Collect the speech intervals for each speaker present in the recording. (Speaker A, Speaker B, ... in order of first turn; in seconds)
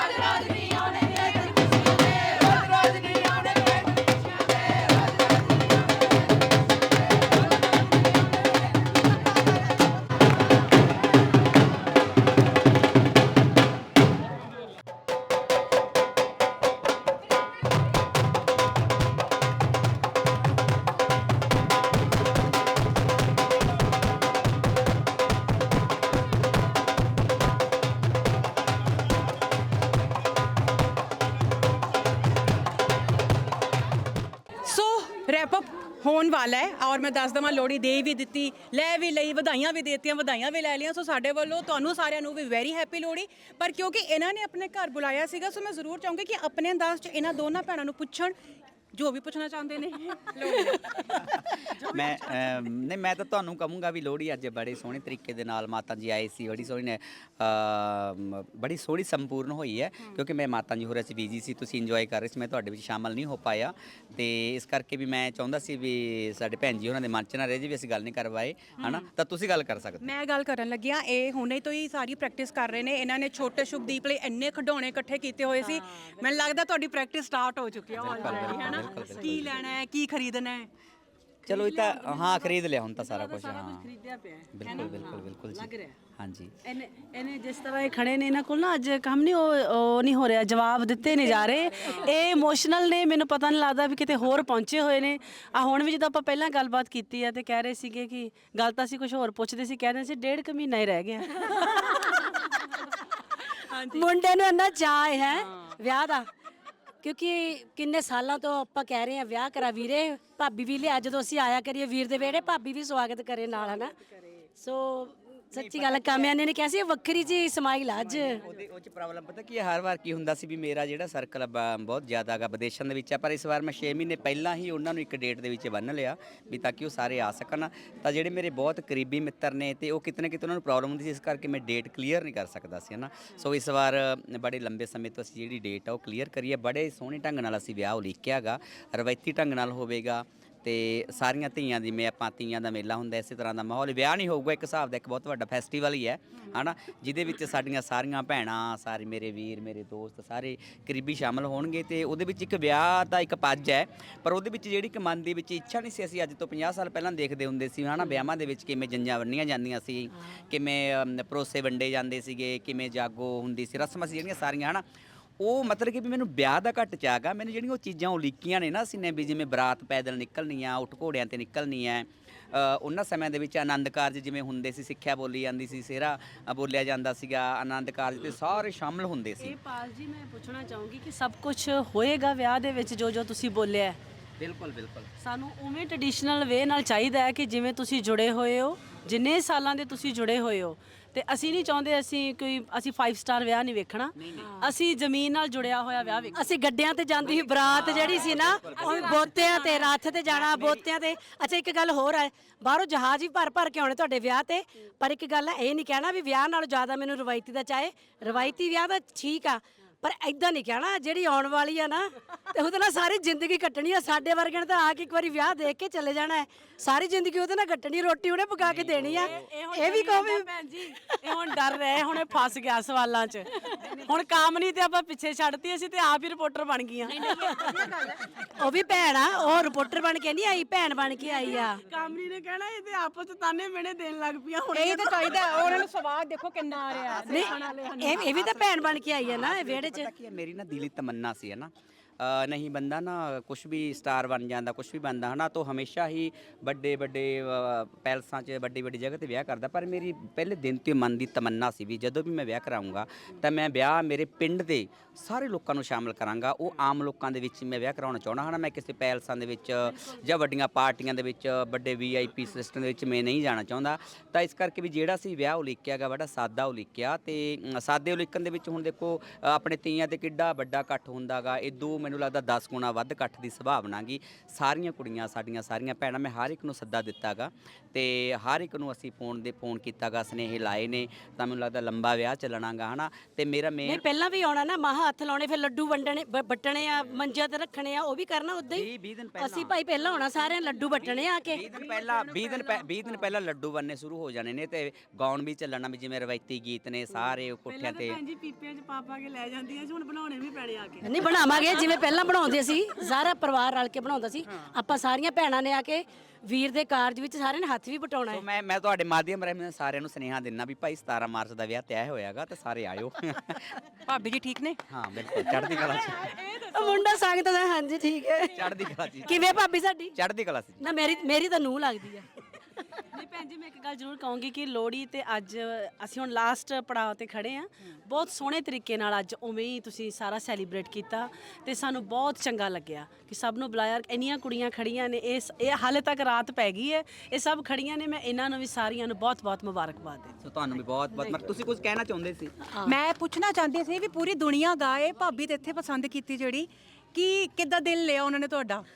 Speaker A: 0.3-1.3, 75.6-76.5, 78.0-79.6, 81.5-86.0, 86.6-102.2, 179.4-184.0, 185.2-196.5, 197.7-199.9, 219.1-227.8, 231.2-235.8, 237.3-238.3, 290.0-291.2, 297.7-302.1, 315.8-317.1, 323.0-340.4
Speaker B: 34.6-48.3, 48.9-52.6, 68.8-69.1, 70.0-80.7, 84.6-85.0, 91.3-92.0, 198.8-199.7, 227.1-228.2, 234.7-237.9, 291.7-293.2, 314.1-314.8, 315.5-316.6, 342.8-348.9
Speaker C: 51.2-70.1, 77.9-79.7, 81.5-83.9, 84.5-86.5, 115.5-116.4, 118.0-164.8, 165.4-179.6, 184.4-185.1, 194.2-194.6, 197.3-199.3, 200.2-200.8, 218.6-219.5, 237.1-284.0, 288.7-289.8, 291.4-298.2, 308.3-313.8, 314.9-316.3, 318.5-319.6, 320.1-320.8, 340.4-342.6
Speaker D: 103.8-106.3, 107.0-113.9, 114.6-118.4, 196.3-220.5, 228.5-231.8, 237.3-240.1, 283.8-291.6, 301.0-308.4, 316.7-318.7, 319.2-320.1, 320.8-322.3